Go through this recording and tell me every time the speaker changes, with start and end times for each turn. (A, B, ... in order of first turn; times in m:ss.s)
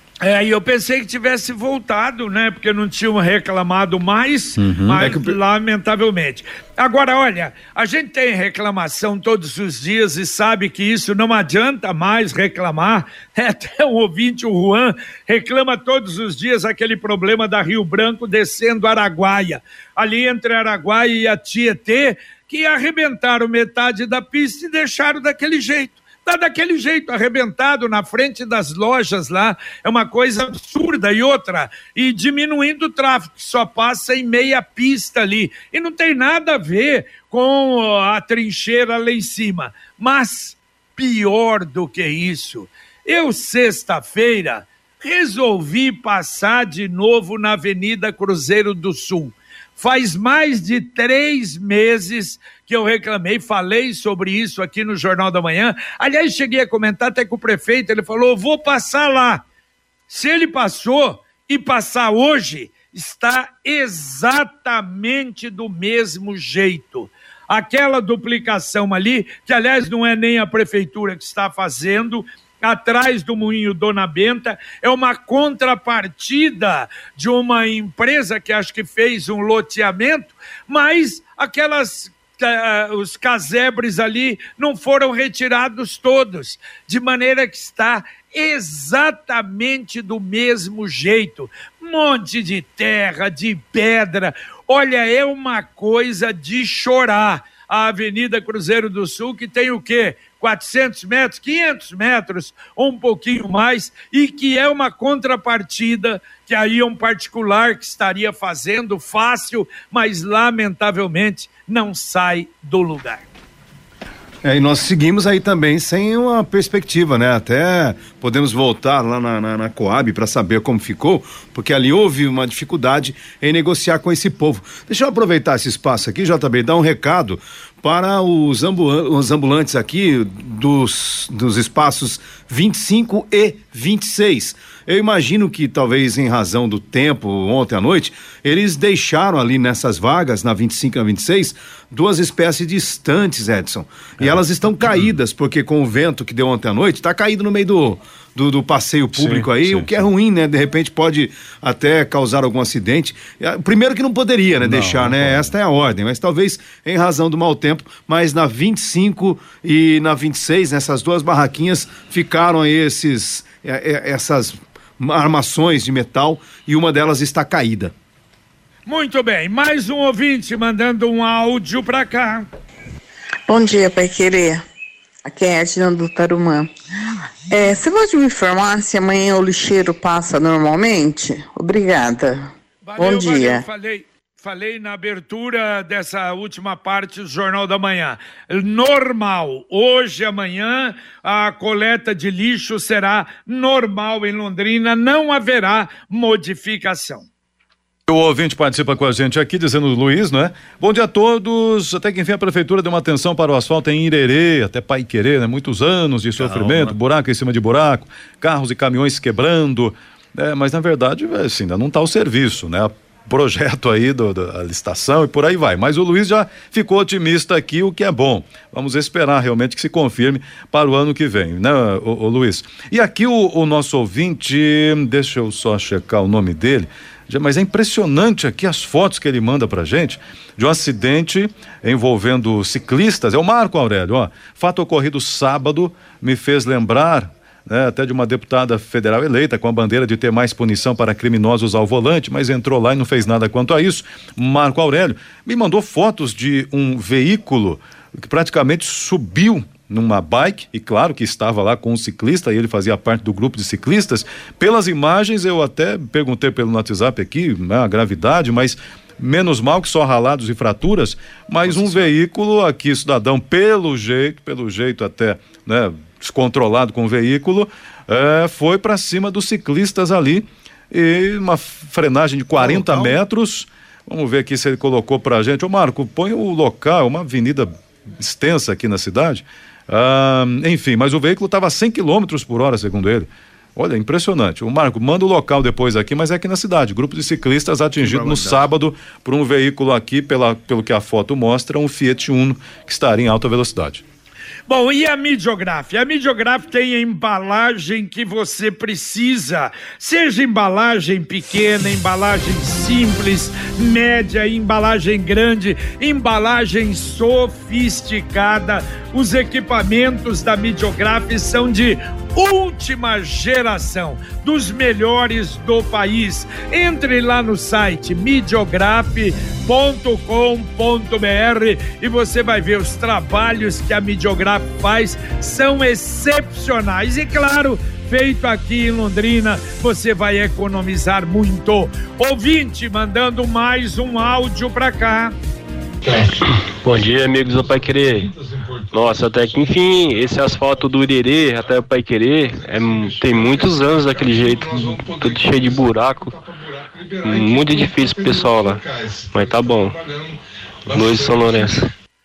0:00.2-0:59.4 A
0:04.6-0:05.0 B
0:05.0-0:05.4 C
1:00.1-1:53.3 A
1:54.4-2:47.9 C
2:29.1-2:30.0 B
2:34.6-2:35.5 B
2:48.9-2:52.5 A
2:53.5-2:54.6 D
2:55.2-2:56.7 D
2:57.5-3:02.5 D
3:02.9-3:17.3 A
3:03.0-3:03.6 D
3:18.1-4:54.0 B
3:26.4-3:27.0 C
4:21.6-4:22.1 C
4:32.6-4:33.2 C
4:48.0-4:48.7 C
4:54.7-5:35.4 A
5:36.1-5:38.3 E
5:38.9-5:46.4 E
5:47.2-5:50.0 E
5:50.9-5:51.9 E